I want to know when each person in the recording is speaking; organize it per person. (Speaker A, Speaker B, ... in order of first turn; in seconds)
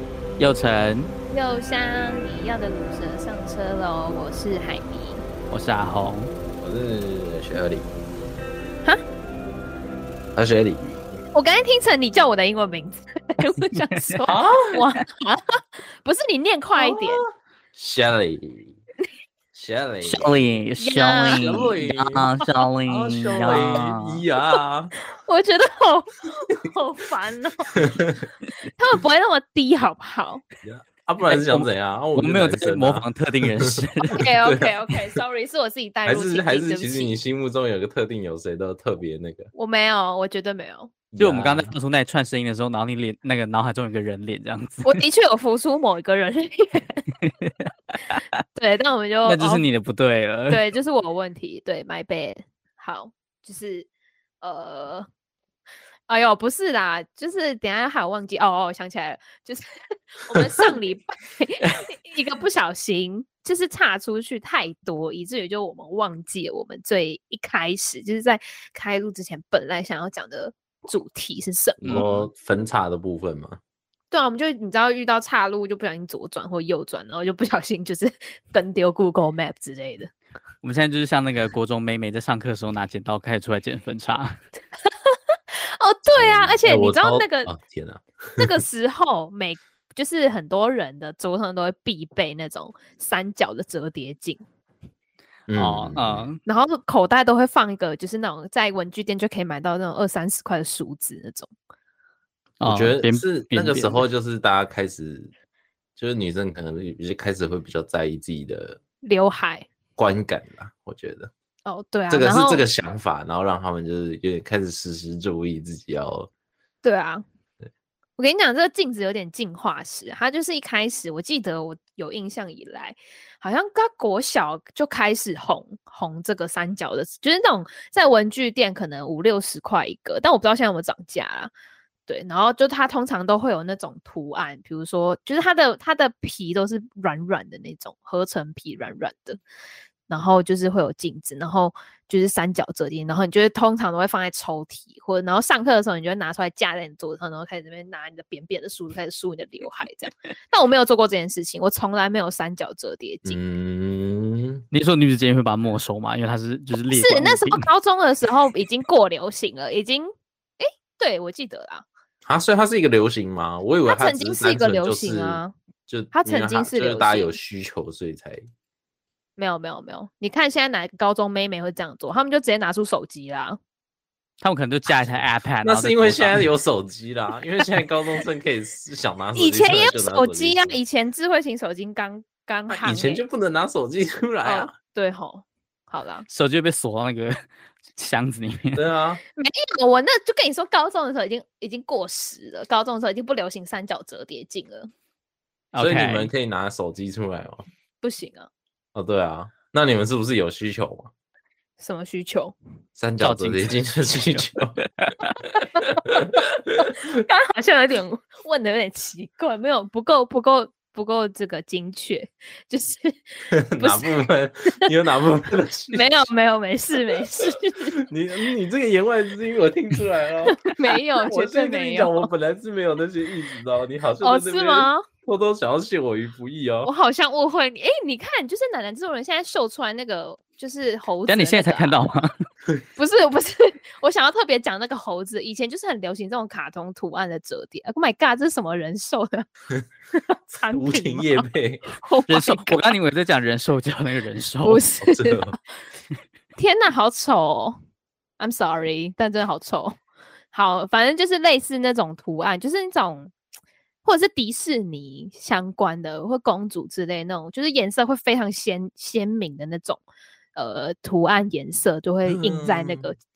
Speaker A: 0.4-1.1, 5.5-6.3, 13.9-14.2, 20.0-24.2, 31.3-34.2, 41.2-45.0, 49.2-50.6, 71.8-72.3, 80.6-84.4, 95.5-96.4, 102.6-104.0, 154.7-157.7, 174.4-176.5, 186.3-187.4, 187.9-188.8, 195.7-196.3, 203.2-203.8, 205.0-205.3, 231.3-232.3, 242.3-244.8
Speaker B: 1.3-5.2, 11.3-17.2, 20.8-21.7, 25.2-27.7, 28.8-30.4, 34.1-37.1, 39.5-40.9, 44.8-47.1, 48.5-49.6, 50.5-53.9, 54.4-55.1, 56.1-72.1, 74.1-80.1, 84.9-87.5, 88.4-94.4, 96.5-101.5, 109.0-109.7, 111.7-112.6, 116.8-117.2, 118.2-131.5, 132.1-139.4, 140.1-153.4, 156.9-161.8, 163.8-165.5, 166.1-167.4, 169.4-173.6, 179.3-183.2, 184.4-186.2, 189.4-194.9, 198.0-198.5, 201.8-202.5, 207.2-213.2, 213.8-214.1, 215.9-217.9, 220.5-222.3, 224.2-225.1, 226.8-232.0, 232.9-239.5, 240.1-242.8, 244.6-245.4, 246.6-247.8, 248.4-250.0, 250.5-253.3, 254.0-260.0, 260.5-263.2
Speaker C: 6.6-7.9, 10.3-10.8, 14.2-14.8, 16.8-18.8, 19.5-20.3, 21.4-22.2, 22.9-24.9, 27.7-28.2, 30.6-34.7, 36.0-39.5, 41.1-41.7, 71.8-73.6, 86.2-88.5, 95.5-96.3, 102.6-105.3, 106.0-108.8, 110.0-111.3, 112.1-116.3, 153.2-154.6, 162.2-168.4, 175.6-180.8, 182.7-184.7, 188.7-189.2, 195.8-197.6, 198.9-201.1, 203.0-204.8, 205.5-207.0, 213.5-216.1, 218.0-226.9, 240.5-241.8, 245.0-245.6, 262.2-263.1